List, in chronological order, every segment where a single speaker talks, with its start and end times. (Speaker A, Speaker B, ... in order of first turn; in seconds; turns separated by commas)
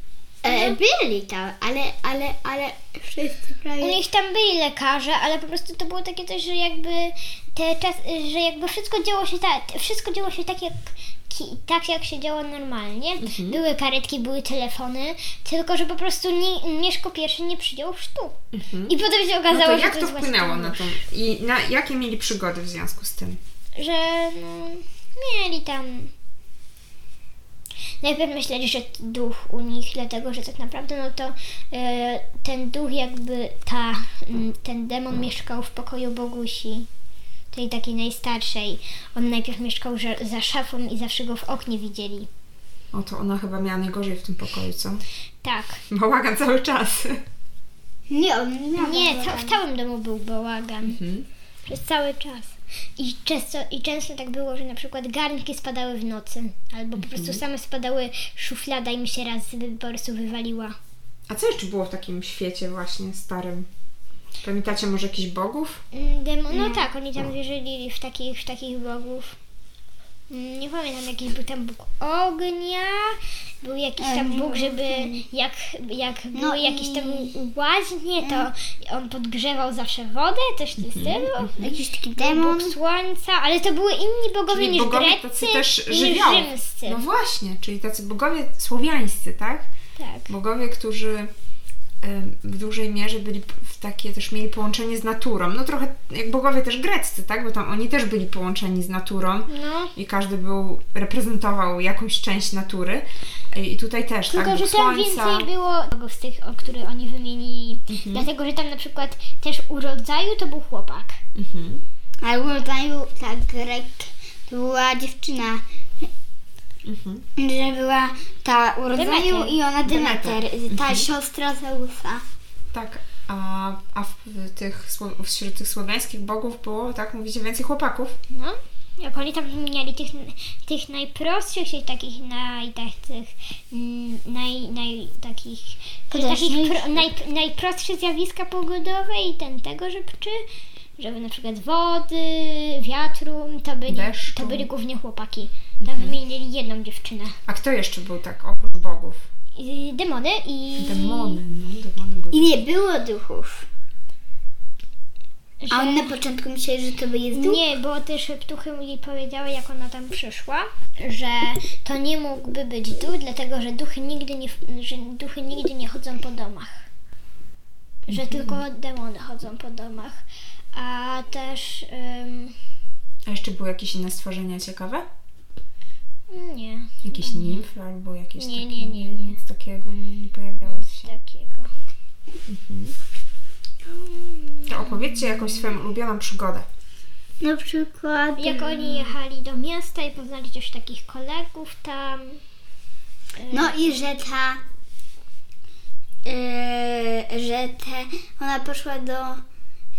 Speaker A: 0.4-4.0, Speaker B: 0.4-0.8, Speaker B: 3.8-20.9, Speaker C: 13.2-13.6, Speaker C: 18.5-18.9, Speaker C: 19.5-23.4, Speaker B: 23.8-26.1, Speaker B: 28.0-36.9, Speaker B: 37.5-42.3, Speaker C: 42.9-45.0, Speaker B: 45.4-45.8, Speaker C: 45.9-47.2, Speaker A: 48.1-49.6, Speaker B: 48.8-51.0, Speaker C: 50.8-51.3, Speaker B: 51.6-60.8, Speaker C: 57.0-57.4, Speaker C: 61.3-63.7, Speaker C: 64.4-65.8, Speaker B: 65.9-69.4, Speaker A: 66.5-66.8, Speaker B: 70.3-87.0, Speaker A: 74.0-75.2, Speaker A: 76.3-77.3, Speaker A: 78.2-78.5, Speaker C: 80.8-81.4, Speaker A: 81.6-82.7, Speaker C: 84.5-89.7, Speaker B: 90.0-90.3, Speaker C: 90.3-91.3, Speaker C: 92.0-105.5, Speaker B: 99.5-99.9, Speaker B: 104.3-111.2, Speaker C: 107.9-108.3, Speaker C: 111.3-111.8, Speaker A: 112.2-116.1, Speaker C: 116.8-117.2, Speaker A: 117.4-122.2, Speaker B: 118.9-119.6, Speaker C: 119.8-121.1, Speaker C: 122.7-128.2, Speaker B: 128.3-140.4, Speaker A: 136.1-137.1, Speaker B: 141.0-147.4, Speaker C: 143.9-144.7, Speaker C: 145.8-146.2, Speaker C: 147.5-149.2, Speaker B: 149.6-151.4, Speaker C: 150.8-152.5, Speaker A: 152.3-153.7, Speaker B: 155.6-156.1, Speaker A: 155.7-157.6, Speaker B: 157.3-166.8, Speaker B: 168.1-170.2, Speaker C: 168.1-168.6, Speaker B: 170.7-172.6, Speaker C: 173.2-175.1, Speaker B: 176.3-177.6, Speaker C: 177.0-181.1, Speaker B: 178.4-179.4, Speaker B: 180.6-181.7, Speaker C: 182.5-182.9, Speaker B: 183.8-185.0, Speaker C: 184.7-186.7, Speaker A: 187.4-189.1, Speaker B: 188.4-192.4, Speaker B: 193.4-193.9, Speaker A: 193.5-194.6, Speaker A: 196.2-199.4